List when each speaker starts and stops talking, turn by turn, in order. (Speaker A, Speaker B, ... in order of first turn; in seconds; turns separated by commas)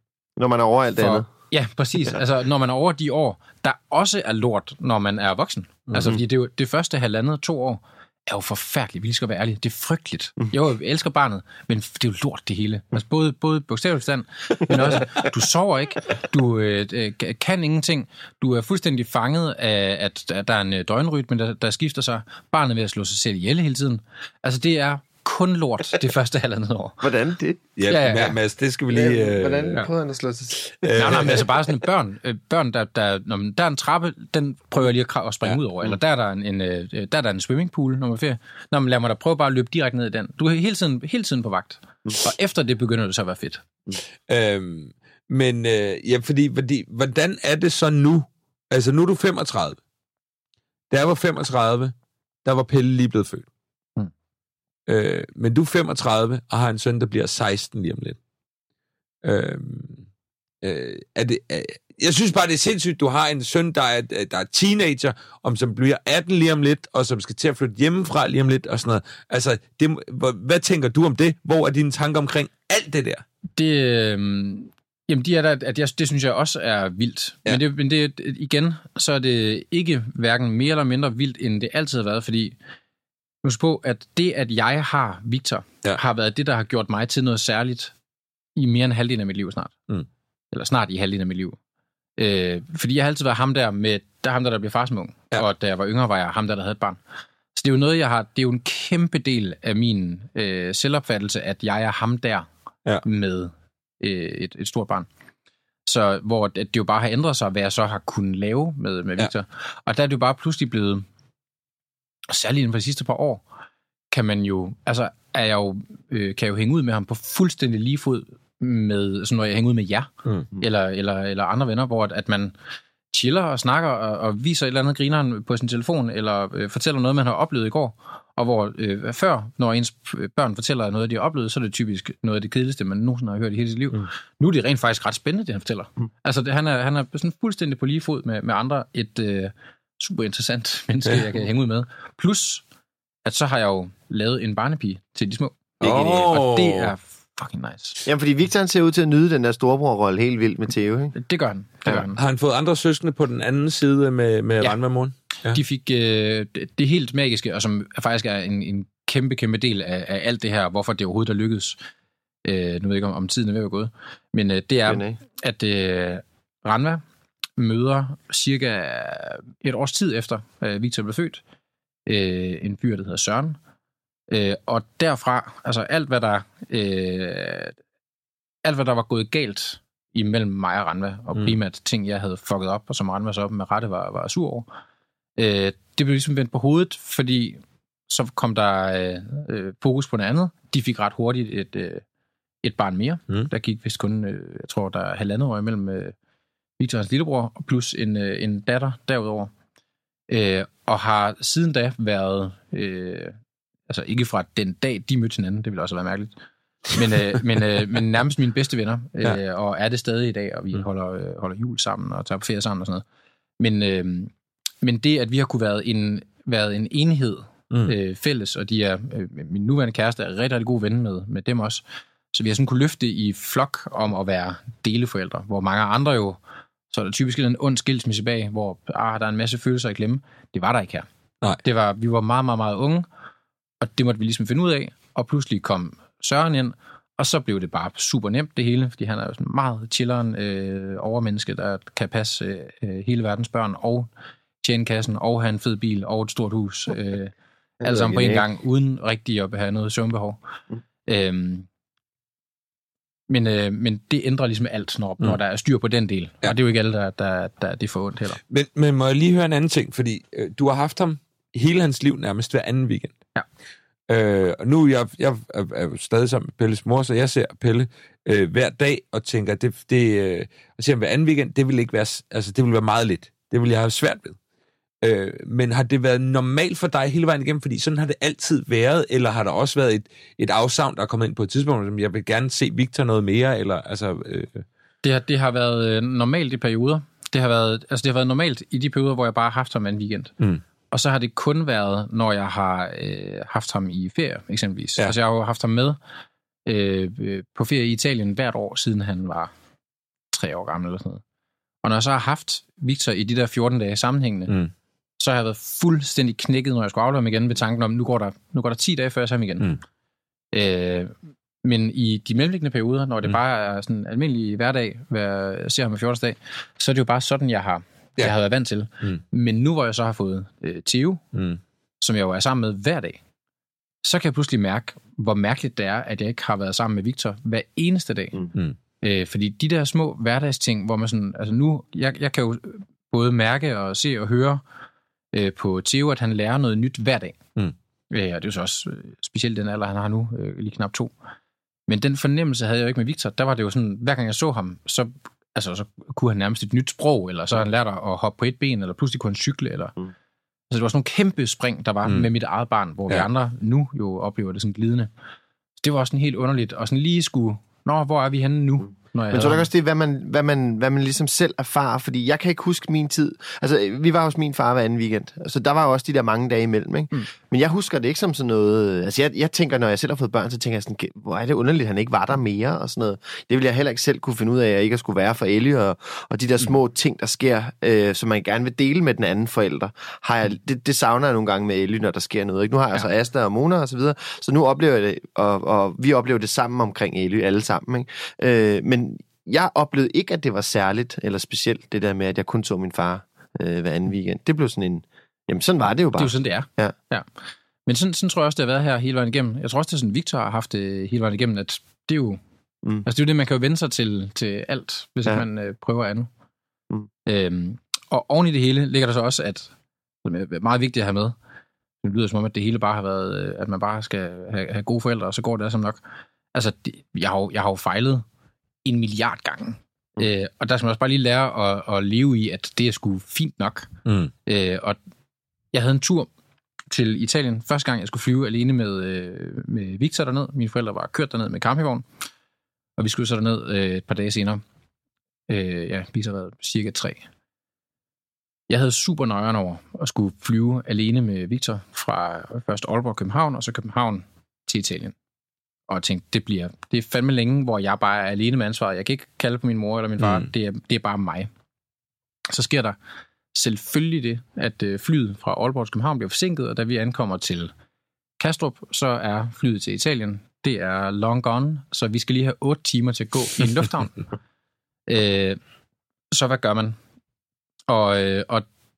Speaker A: 0.4-1.3, Speaker B: 1.0-27.1, Speaker A: 27.0-27.6, Speaker C: 27.8-29.9, Speaker B: 27.9-28.4, Speaker A: 28.9-31.3, Speaker C: 30.6-31.4, Speaker B: 31.0-43.6, Speaker C: 44.3-49.8, Speaker C: 50.9-51.9, Speaker C: 52.5-53.5, Speaker C: 54.9-58.2, Speaker C: 59.2-60.0, Speaker C: 60.6-73.2, Speaker B: 73.6-82.6, Speaker B: 83.4-87.9, Speaker B: 88.6-89.7, Speaker B: 90.5-91.6, Speaker B: 92.2-97.0, Speaker B: 97.6-102.5, Speaker B: 103.0-105.1, Speaker B: 105.9-111.0, Speaker B: 112.3-113.4, Speaker B: 114.1-122.5, Speaker B: 123.1-142.6, Speaker B: 143.2-148.0, Speaker C: 145.8-146.9, Speaker A: 148.1-151.2, Speaker B: 151.2-152.2, Speaker C: 152.1-155.6, Speaker B: 155.5-161.8, Speaker B: 162.4-167.0, Speaker A: 164.9-165.2, Speaker B: 167.6-171.4, Speaker B: 172.1-173.6, Speaker B: 174.3-177.8, Speaker B: 178.6-184.7, Speaker B: 185.4-192.0, Speaker B: 192.6-196.1, Speaker B: 196.8-199.5, Speaker B: 200.3-203.4, Speaker B: 203.9-206.3, Speaker B: 206.9-213.0, Speaker B: 213.6-226.4, Speaker C: 217.7-217.9, Speaker B: 226.9-231.1, Speaker B: 231.6-233.1, Speaker B: 233.8-244.1, Speaker B: 244.6-250.4, Speaker A: 247.8-248.5, Speaker B: 251.1-251.7, Speaker B: 253.3-258.4, Speaker C: 258.5-263.2, Speaker C: 264.1-274.4, Speaker C: 275.0-284.6, Speaker B: 285.0-290.3, Speaker B: 290.9-296.0, Speaker B: 296.7-299.5, Speaker B: 300.3-301.2, Speaker B: 301.8-304.6, Speaker B: 305.2-309.7, Speaker B: 310.5-321.2, Speaker C: 321.3-321.6, Speaker B: 322.0-323.2, Speaker B: 324.0-328.5, Speaker B: 329.0-334.6, Speaker B: 335.3-337.4, Speaker B: 338.1-341.1, Speaker B: 341.9-350.0, Speaker B: 350.7-355.1, Speaker B: 355.8-359.7, Speaker A: 359.3-396.9, Speaker B: 396.2-397.3, Speaker B: 397.9-402.4, Speaker B: 403.1-406.3, Speaker B: 407.3-409.7, Speaker B: 410.2-411.4, Speaker B: 412.0-416.0, Speaker B: 416.5-418.2, Speaker B: 418.9-423.9, Speaker C: 424.1-424.3, Speaker B: 424.5-425.0, Speaker B: 425.7-426.3, Speaker B: 426.9-432.1, Speaker B: 433.0-434.6, Speaker B: 435.5-437.3, Speaker B: 438.7-445.1, Speaker B: 445.9-451.5, Speaker C: 450.2-450.5, Speaker B: 452.5-453.0, Speaker B: 453.5-457.7, Speaker B: 458.4-464.2, Speaker B: 465.1-465.6, Speaker B: 466.3-467.0, Speaker B: 467.9-468.7